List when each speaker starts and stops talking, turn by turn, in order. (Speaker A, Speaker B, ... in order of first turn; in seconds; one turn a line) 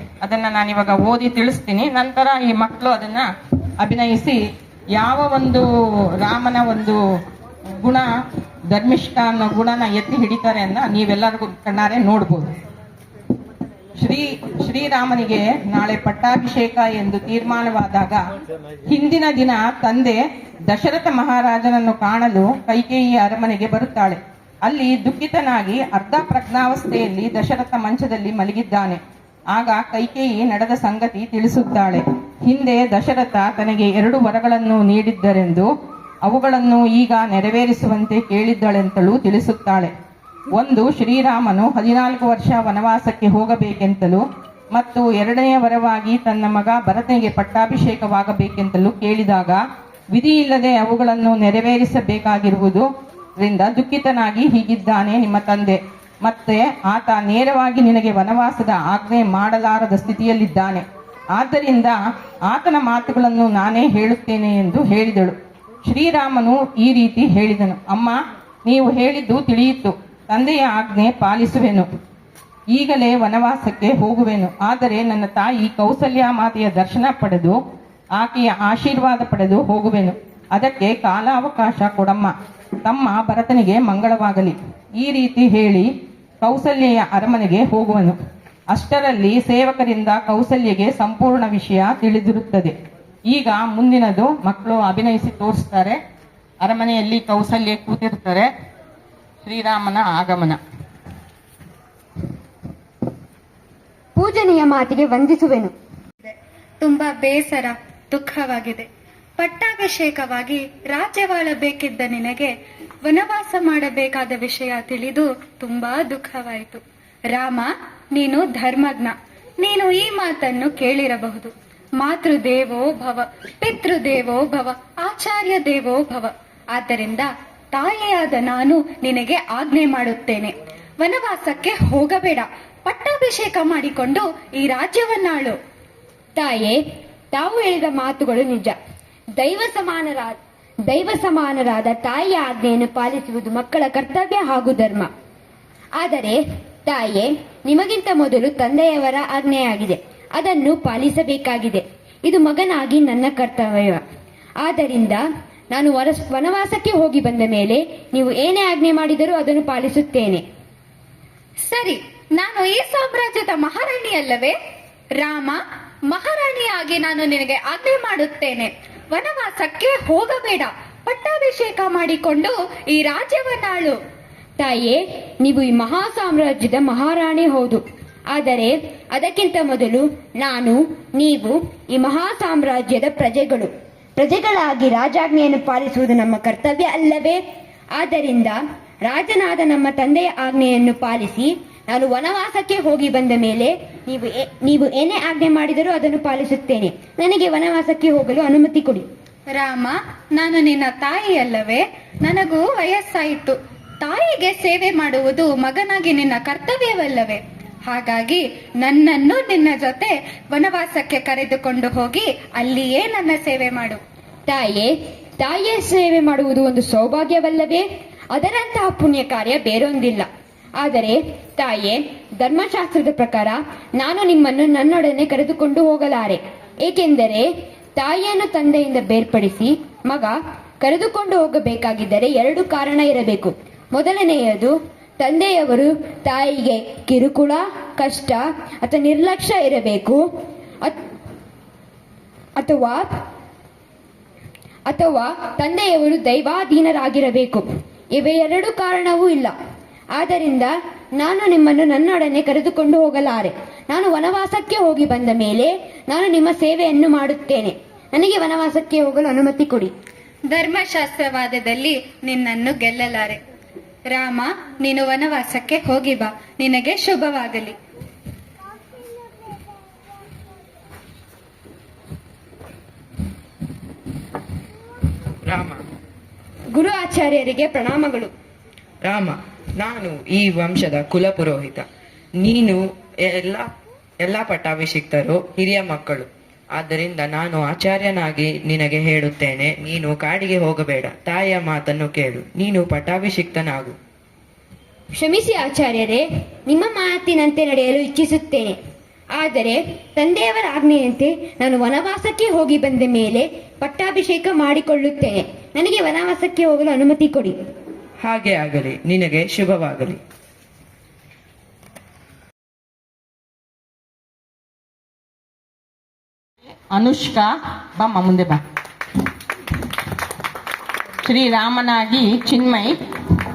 Speaker A: 0.2-3.3
Speaker A: 3.8-4.4
Speaker A: 4.9-5.7
Speaker A: 6.2-7.0
Speaker A: 7.8-8.1
Speaker A: 8.7-12.5
Speaker A: 13.9-18.2
Speaker A: 18.9-29.0
Speaker A: 29.5-35.7
Speaker A: 36.2-39.9
Speaker A: 40.5-49.6
Speaker A: 50.1-71.9
Speaker A: 72.7-77.6
Speaker A: 78.2-85.9
Speaker A: 86.4-88.2
Speaker A: 88.7-92.7
Speaker A: 93.3-96.0
Speaker A: 96.6-98.5
Speaker A: 99.4-100.6
Speaker B: 104.2-105.7
Speaker C: 106.2-108.8
Speaker C: 109.4-112.5
Speaker C: 113.0-116.8
Speaker C: 117.3-135.6
Speaker B: 136.4-136.8
Speaker B: 137.3-138.8
Speaker B: 139.4-145.1
Speaker B: 146.0-154.0
Speaker B: 154.6-155.2
Speaker B: 155.7-160.4
Speaker C: 161.7-164.5
Speaker C: 165.2-174.0
Speaker B: 174.6-187.4
Speaker B: 187.9-199.1
Speaker C: 199.6-214.0
Speaker B: 214.5-220.3
Speaker B: 220.8-240.2
Speaker B: 242.6-243.1
Speaker B: 244.9-249.5
Speaker B: 250.2-259.9
Speaker C: 260.5-263.4
Speaker C: 264.1-267.8
Speaker D: 275.4-275.8
Speaker B: 276.7-278.3
Speaker D: 279.0-294.0
Speaker B: 295.1-298.8
Speaker B: 299.4-307.6
Speaker D: 308.2-310.2
Speaker A: 316.9-318.6
Speaker A: 321.2-322.9